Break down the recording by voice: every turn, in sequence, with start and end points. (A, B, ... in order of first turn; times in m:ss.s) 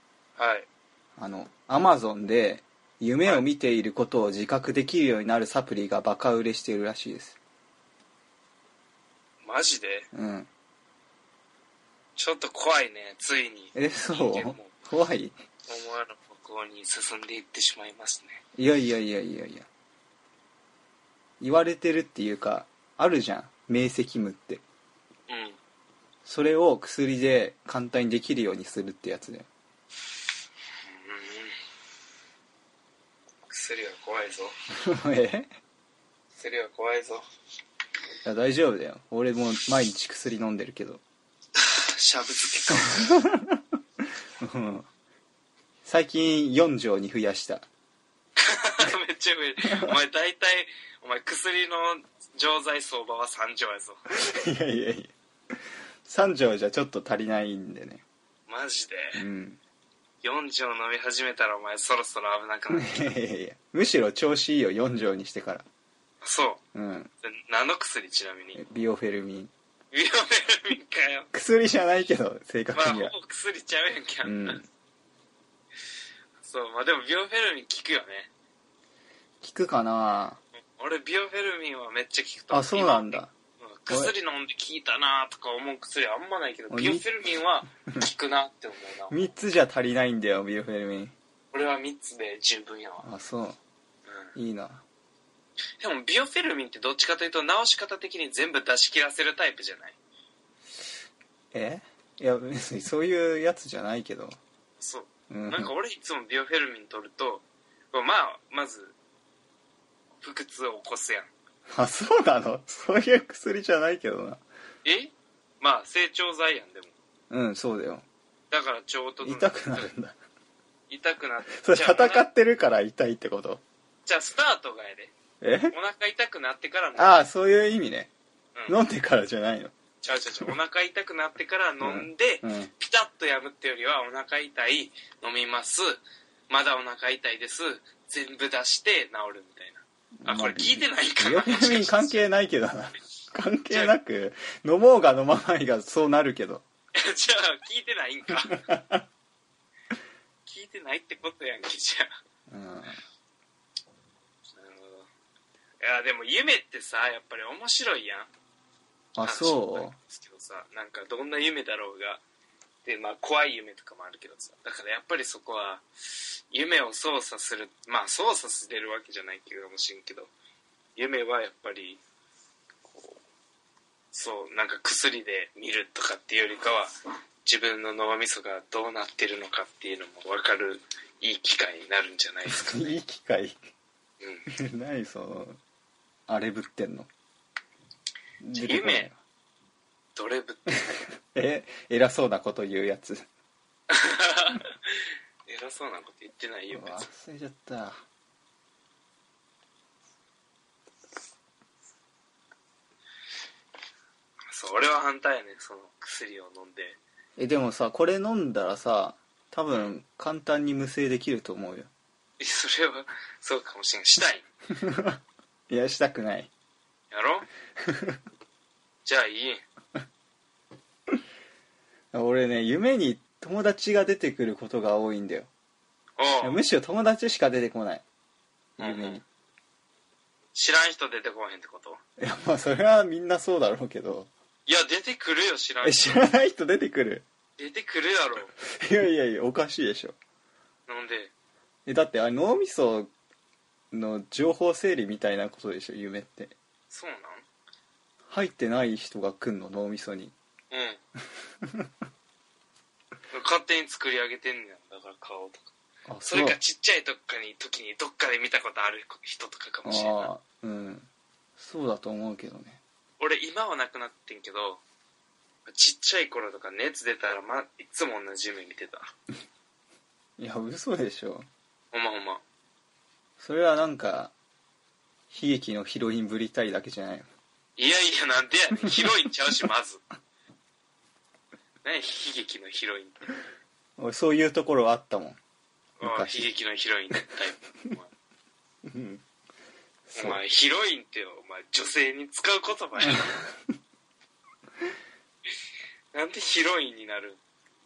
0:00.4-0:00.7 A
0:01.2-0:07.4 B
0:09.4-0:10.1 A
0:10.1-0:10.5 B
0:12.2-0:14.7 A
0:13.8-0:15.4 B
0:15.7-0:18.4 A
0:18.6-0:19.7 B
0:21.4-0:24.6 B
0:25.3-0:25.6 A
0:26.2-0:29.5 B
0:30.9-0:31.6 A
0:33.5-0:34.5 A
0:34.8-0:35.5 B
0:36.4-0:37.2 A
0:38.2-0:41.0 B
0:41.6-0:43.1 A
0:43.0-0:43.6 B
0:44.4-0:44.9 B
0:45.8-0:47.7 B
0:48.4-0:54.0 A
0:49.6-0:50.0 B
0:54.2-0:55.1 B
0:56.1-0:58.0 B
0:58.5-0:59.2 A
0:59.2-0:59.6 B
1:00.2-1:03.2 A
1:02.7-1:05.7 B
1:06.2-1:06.6 A
1:06.7-1:07.1 B
1:07.2-1:08.6 A
1:08.6-1:09.5 B
1:09.9-1:11.3 A
1:11.3-1:13.1 B
1:12.7-1:14.6 A
1:14.2-1:14.7 B
1:16.4-1:18.3 A
1:19.4-1:20.4 B
1:20.8-1:29.3 A
1:22.5-1:23.3 B
1:26.7-1:27.1 B
1:29.1-1:31.1 B
1:31.5-1:33.1 A
1:33.0-1:33.6 B
1:34.1-1:34.3 A
1:34.4-1:34.8 B
1:35.8-1:40.0 A
1:41.5-1:44.4 B
1:44.8-1:49.0 A
1:45.3-1:45.7 B
1:50.2-1:51.3 A
1:51.7-1:54.4 B
1:54.8-1:56.9 A
1:57.3-1:58.1 B
1:58.5-1:59.9 A
1:59.2-2:00.2 B
2:00.9-2:02.3 A
2:01.5-2:03.6 B
2:04.1-2:05.1 A
2:05.4-2:05.7 B
2:05.7-2:07.2 A
2:07.0-2:08.1 B
2:08.7-2:09.7 B
2:10.0-2:22.3 A
2:11.8-2:12.7 B
2:20.2-2:26.6 B
2:23.7-2:24.0 A
2:27.0-2:28.6 A
2:28.7-2:29.0 B
2:30.5-2:32.1 A
2:32.5-2:33.0 B
2:34.6-2:35.1 A
2:35.8-2:38.3 A
2:39.2-2:40.0 B
2:39.2-2:42.2 A
2:42.8-2:45.9 A
2:46.5-2:50.3 A
2:51.0-2:52.0 A
2:52.9-2:53.2 A
2:54.1-2:56.9 A
2:57.4-3:03.0 A
3:02.5-3:03.6 B
3:04.2-3:04.5 A
3:04.5-3:05.6 B
3:06.3-3:07.1 B
3:08.4-3:09.2 B
3:08.6-3:09.1 A
3:10.2-3:11.0 A
3:11.2-3:13.3 B
3:13.9-3:17.1 A
3:16.7-3:18.0 B
3:24.5-3:27.0 A
3:27.4-3:31.9 B
3:32.4-3:34.4 A
3:34.8-3:36.5 B
3:37.1-3:37.5 A
3:37.9-3:38.2 B
3:39.0-3:39.6 A
3:42.1-3:45.5 B
3:46.2-3:46.6 A
3:46.4-3:48.0 B
3:48.8-3:49.2 A
3:48.8-3:49.2 B
3:50.5-3:52.0 A
3:52.2-3:54.3 B
3:54.7-3:56.2 A
3:55.8-3:57.2 B
3:57.6-3:58.5 A
3:58.7-4:00.2 B
4:00.9-4:01.3 A
4:01.9-4:03.1 B
4:03.9-4:06.6 B
4:06.9-4:07.5 A
4:08.3-4:10.3 B
4:10.7-4:11.0 A
4:13.3-4:15.7 A
4:16.1-4:16.6 B
4:16.2-4:20.3 A
4:19.8-4:22.8 B
4:23.2-4:24.8 A
4:25.7-4:29.1 A
4:30.4-4:31.5 B
4:31.9-4:32.4 A
4:33.4-4:34.3 B
4:35.3-4:37.3 B
4:37.8-4:40.0 A
4:41.8-4:43.3 A
4:44.0-4:45.4 B
4:46.0-4:46.5 B
4:46.0-4:48.1 A
4:48.9-4:49.2 B
4:50.1-4:50.4 B
4:50.2-4:53.3 A
4:56.1-4:57.4 A